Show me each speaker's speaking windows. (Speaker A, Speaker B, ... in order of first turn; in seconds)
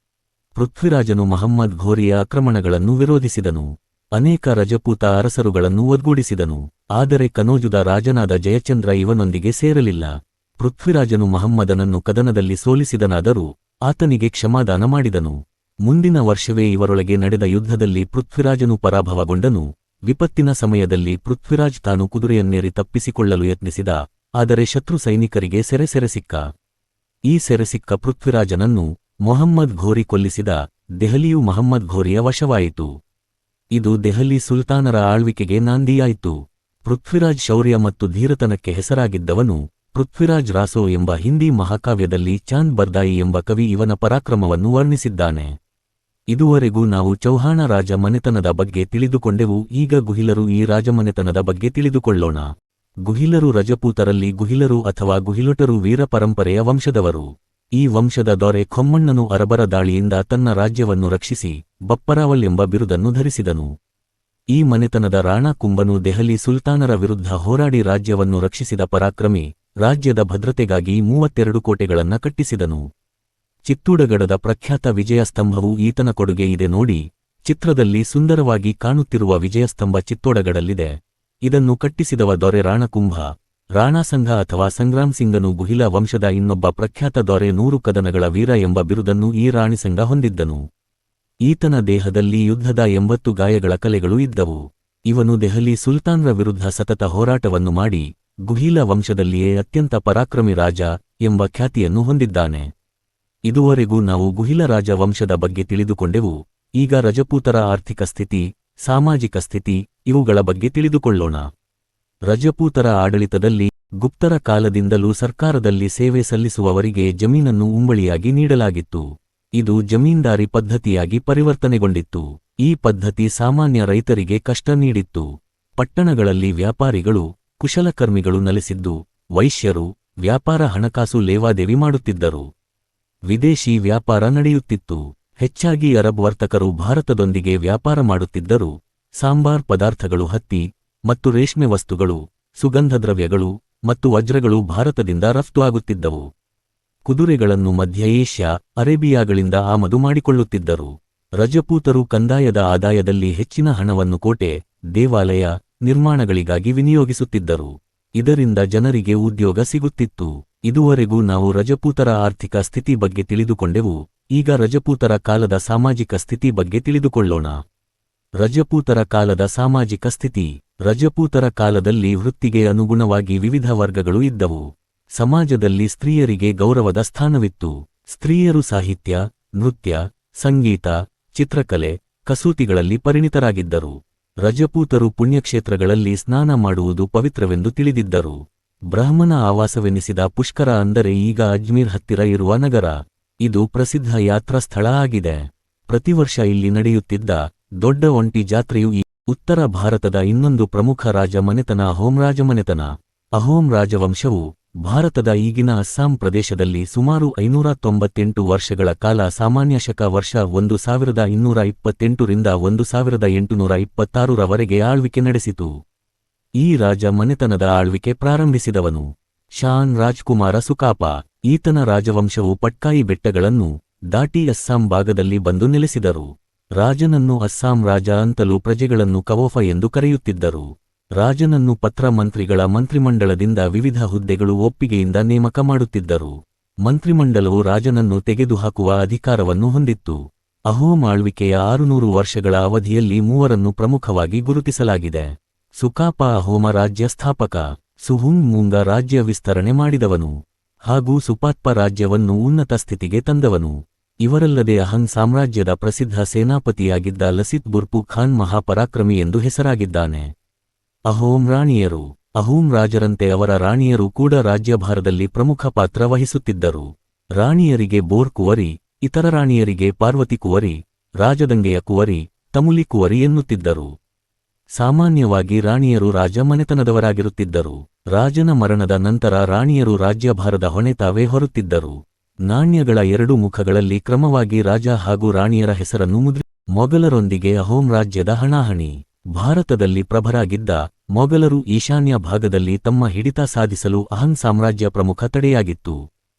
Speaker A: 0.6-26.5, 27.3-32.9, 33.7-45.5, 46.3-52.5, 53.0-63.7, 64.5-72.8, 73.7-90.6, 91.5-102.7, 103.5-111.5, 112.3-132.5, 133.3-146.3, 147.1-167.6, 168.4-188.4, 188.9-215.7, 216.6-250.3, 250.9-260.3, 261.1-273.9, 274.8-296.0